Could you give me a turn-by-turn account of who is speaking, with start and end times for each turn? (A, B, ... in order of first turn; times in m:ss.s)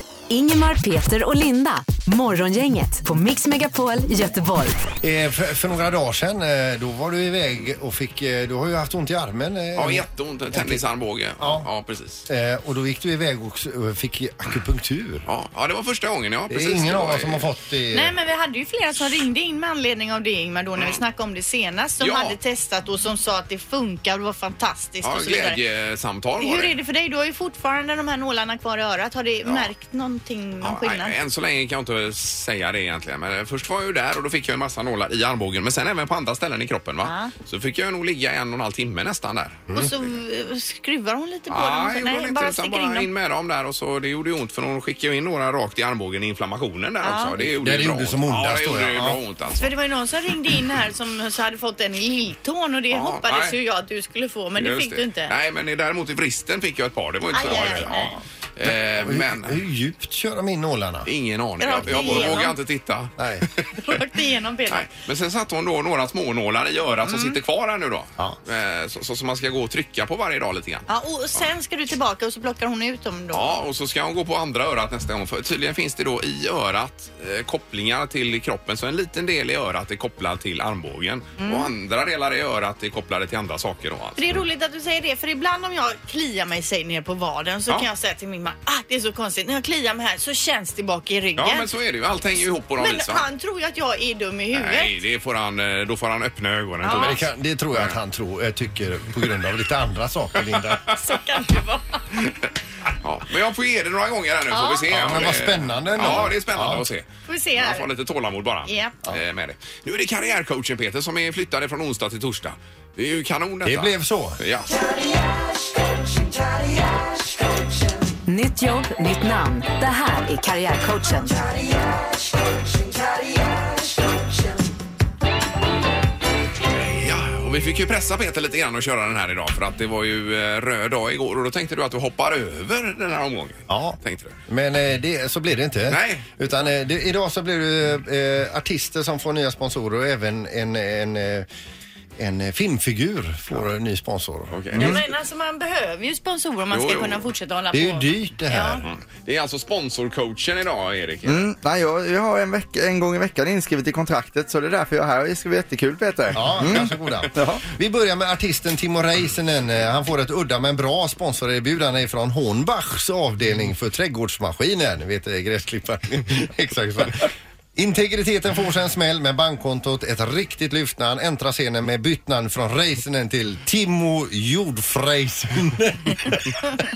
0:00.3-0:04.8 A
0:05.0-0:10.8 B
0:09.7-0:12.2 C
0:11.4-0:11.7 B
0:12.3-0:15.3 B
0:15.2-0:17.5 C
0:16.5-0:18.1 B
0:17.9-0:25.6 D
0:22.0-0:22.4 C
0:25.0-0:26.7 C
0:26.4-0:31.2 D
0:29.4-0:29.7 C
0:30.6-0:39.8 C
0:37.0-0:37.3 D
0:39.7-0:43.1 D
0:41.5-0:49.7 C
0:47.0-0:47.4 D
0:47.5-0:49.2 B
0:49.6-0:55.3 D
0:52.9-0:53.6 C
0:54.6-0:59.6 C
0:57.3-0:58.1 D
0:57.5-0:58.0 B
0:58.6-1:01.1 B
1:01.0-1:03.7 C
1:01.6-1:02.6 D
1:01.8-1:02.4 B
1:03.2-1:03.4 B
1:03.8-1:04.8 D
1:04.7-1:11.4 C
1:07.1-1:07.3 D
1:10.9-1:13.5 D
1:13.3-1:24.4 C
1:21.4-1:21.7 D
1:24.2-1:31.7 D
1:31.4-1:33.2 C
1:32.8-1:34.9 D
1:34.5-1:37.2 C
1:36.8-1:37.2 D
1:36.9-1:40.9 B
1:40.5-1:41.0 C
1:41.0-1:42.0 D
1:43.0-1:54.7 C
1:44.5-1:44.9 D
1:44.9-1:46.8 B
1:47.3-1:47.9 D
1:48.6-1:49.0 D
1:53.6-1:54.4 B
1:58.2-2:01.4 A
2:06.7-2:14.4 C
2:13.7-2:21.5 B
2:15.9-2:16.2 C
2:22.2-2:25.0 B
2:24.5-2:25.0 C
2:24.8-2:28.8 D
2:26.7-2:27.2 C
2:27.7-2:28.8 B
2:28.8-2:31.5 C
2:31.2-2:37.6 E
2:36.3-2:56.6 B